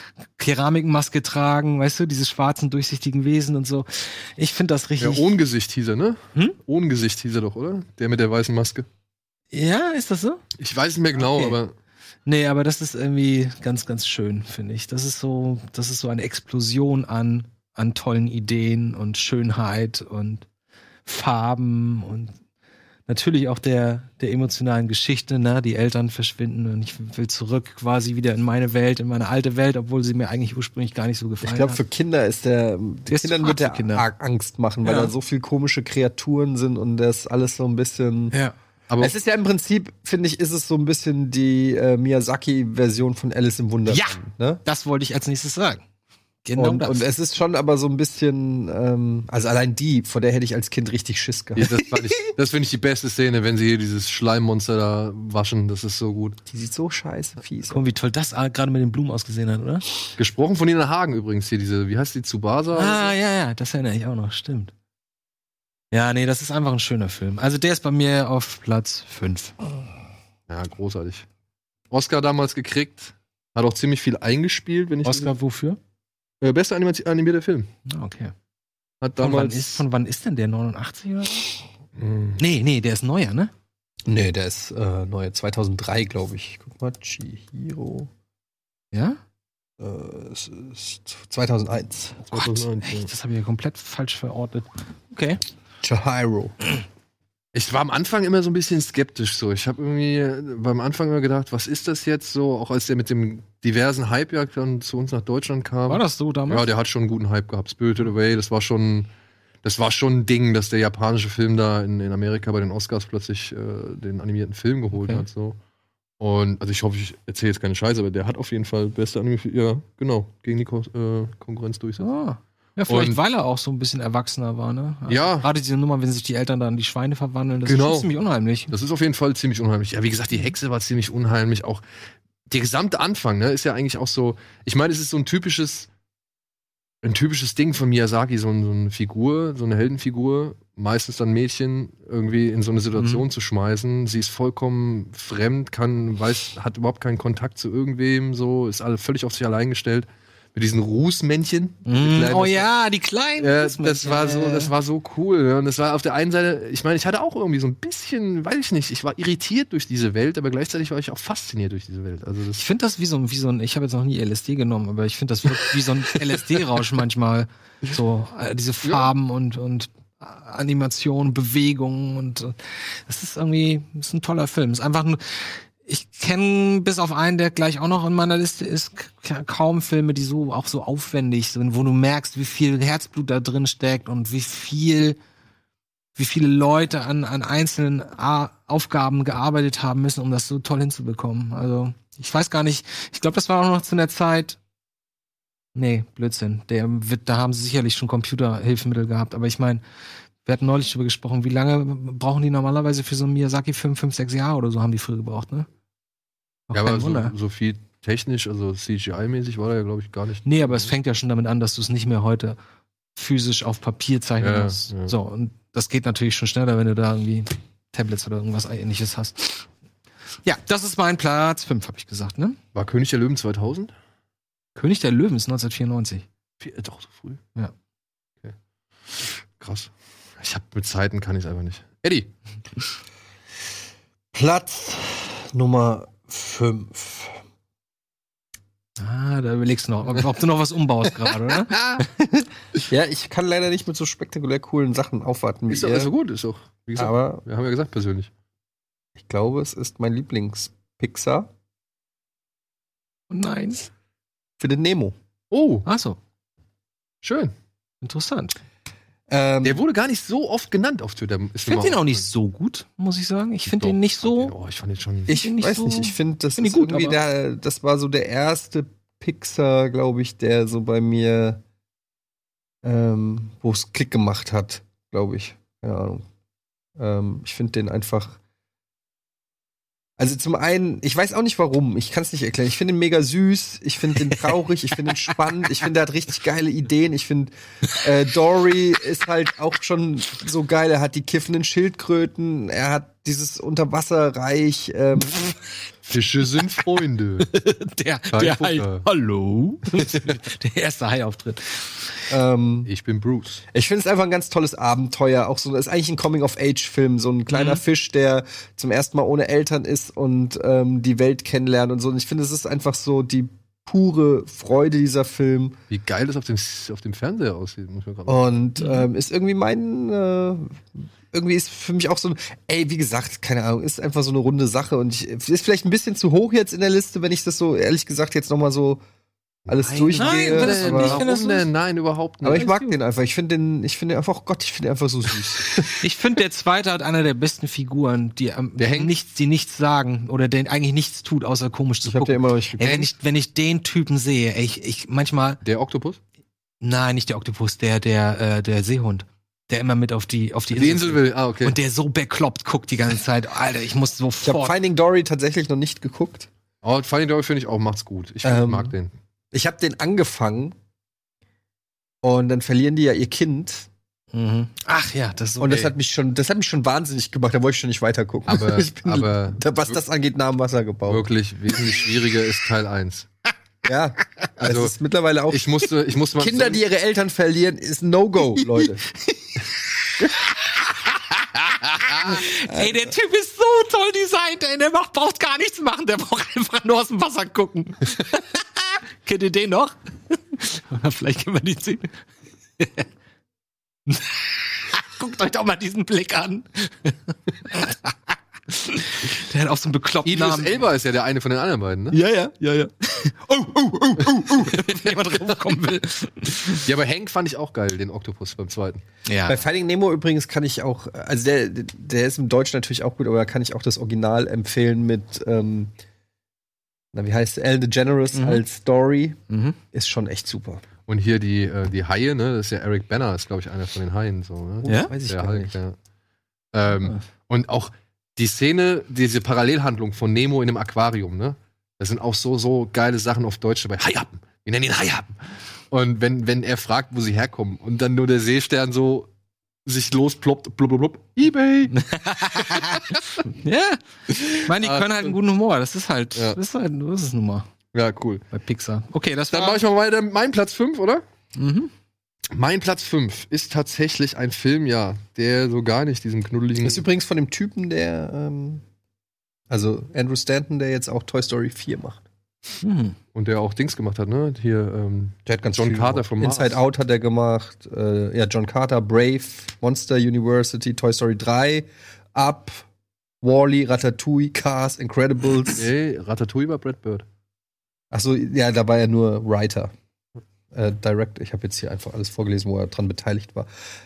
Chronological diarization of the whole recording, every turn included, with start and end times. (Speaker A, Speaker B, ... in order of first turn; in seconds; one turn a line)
Speaker A: 0.4-5.3
Speaker B: 5.0-8.9
Speaker A: 9.5-10.4
Speaker B: 10.6-11.7
Speaker A: 11.2-11.6
Speaker A: 12.3-20.5
Speaker A: 21.1-22.3
Speaker A: 23.1-31.8
Speaker C: 31.4-38.3
Speaker A: 33.1-34.0
Speaker A: 34.8-35.1
Speaker B: 38.9-39.1
Speaker C: 39.0-44.6
Speaker A: 43.9-45.8
Speaker A: 46.4-47.1
Speaker C: 46.6-51.7
Speaker B: 51.6-56.4
Speaker C: 56.5-57.9
Speaker A: 57.7-59.9
Speaker B: 60.2-63.1
Speaker A: 62.7-64.7
Speaker A: 65.9-69.6
Speaker B: 70.5-71.3
Speaker B: 71.9-75.3
Speaker A: 75.0-75.8
Speaker B: 76.4-77.7
Speaker A: 77.9-78.3
Speaker B: 79.0-79.8
Speaker A: 79.2-81.6
Speaker B: 82.0-82.4
Speaker A: 82.4-83.5
Speaker C: 84.1-88.1
Speaker A: 88.9-89.2
Speaker C: 89.8-92.4
Speaker B: 92.3-93.1
Speaker A: 92.4-95.4
Speaker C: 95.8-96.5
Speaker B: 97.5-109.1
Speaker A: 105.9-106.7
Speaker B: 109.6-115.6
Speaker A: 114.9-115.2
Speaker B: 116.2-122.1
Speaker A: 122.0-128.7
Speaker B: 122.9-123.2
Speaker B: 125.1-125.5
Speaker B: 127.7-128.1
Speaker B: 128.7-131.8
Speaker B: 132.5-135.9
Speaker B: 137.0-152.7
Speaker A: 143.0-143.2
Speaker A: 151.9-154.7
Speaker B: 153.4-162.6
Speaker A: 162.6-185.2
Speaker A: 186.2-194.6
Speaker A: 195.8-199.8
Speaker A: 200.4-205.7
Speaker A: 206.7-207.3
Speaker B: 206.7-210.9
Speaker A: 210.4-212.6
Speaker A: 213.2-219.7
Speaker B: 214.4-215.1
Speaker A: 220.4-222.6
Speaker B: 222.8-223.9
Speaker A: 224.8-226.2
Speaker B: 226.6-227.4
Speaker B: 229.2-232.3
Speaker C: 234.3-237.4
Speaker A: 239.0-242.5
Speaker B: 241.7-242.0
Speaker C: 242.9-246.1
Speaker B: 245.7-248.3
Speaker C: 247.0-247.4
Speaker C: 249.2-251.5
Speaker A: 253.3-253.9
Speaker C: 254.6-255.2
Speaker B: 255.5-255.9
Speaker A: 255.9-256.2
Speaker B: 257.2-257.5
Speaker A: 258.0-258.6
Speaker C: 259.3-259.8
Speaker B: 259.6-262.3
Speaker A: 261.7-264.5
Speaker B: 263.7-265.3
Speaker C: 265.3-271.6
Speaker A: 265.3-267.2
Speaker C: 272.8-276.3
Speaker C: 277.0-278.4
Speaker C: 280.2-295.5
Speaker B: 296.1-297.5
Speaker A: 297.4-302.1
Speaker B: 298.3-299.1
Speaker B: 299.9-300.3
Speaker C: 302.3-302.9
Speaker B: 302.9-303.6
Speaker C: 303.7-315.8
Speaker A: 307.5-307.8
Speaker B: 315.9-318.4
Speaker C: 318.3-329.0
Speaker A: 318.8-319.1
Speaker C: 329.7-331.2
Speaker B: 329.7-332.7
Speaker A: 330.1-331.7
Speaker C: 332.4-335.9
Speaker A: 332.6-332.9
Speaker A: 336.0-345.6
Speaker B: 338.8-339.1
Speaker C: 342.0-343.1
Speaker B: 345.6-346.2
Speaker A: 346.8-354.8
Speaker B: 350.7-351.8
Speaker C: 354.4-356.5
Speaker B: 356.8-359.1
Speaker C: 358.4-358.9
Speaker C: 359.5-360.8
Speaker C: 362.2-363.9
Speaker A: 364.3-365.8
Speaker C: 365.6-371.3
Speaker B: 368.5-370.0
Speaker B: 371.1-373.3
Speaker C: 373.9-375.9
Speaker B: 374.6-374.9
Speaker B: 375.5-376.8
Speaker C: 376.4-379.0
Speaker A: 382.1-392.1
Speaker C: 382.5-383.0
Speaker A: 392.8-393.1
Speaker A: 394.1-398.1
Speaker A: 398.7-400.8
Speaker B: 400.3-402.2
Speaker A: 402.1-403.3
Speaker C: 402.3-402.7
Speaker C: 403.4-404.9
Speaker A: 404.2-406.9
Speaker B: 406.7-409.0
Speaker A: 409.3-409.6
Speaker C: 409.5-415.9
Speaker C: 417.1-419.4
Speaker A: 418.3-418.6
Speaker A: 419.5-419.8
Speaker C: 419.9-420.8
Speaker B: 421.1-426.0
Speaker C: 424.8-425.8
Speaker A: 424.9-425.1
Speaker B: 426.7-435.4
Speaker B: 435.9-439.3
Speaker B: 439.9-443.4
Speaker A: 441.9-447.7
Speaker B: 444.4-445.4
Speaker B: 447.9-448.4
Speaker A: 448.5-449.8
Speaker B: 449.5-451.2
Speaker A: 451.6-451.9
Speaker B: 452.5-457.0
Speaker C: 456.8-458.8
Speaker C: 459.7-462.2
Speaker A: 462.8-463.2
Speaker B: 463.4-466.8
Speaker C: 465.5-472.8
Speaker C: 473.4-475.9
Speaker B: 475.7-477.2
Speaker C: 478.1-479.9
Speaker C: 480.7-483.7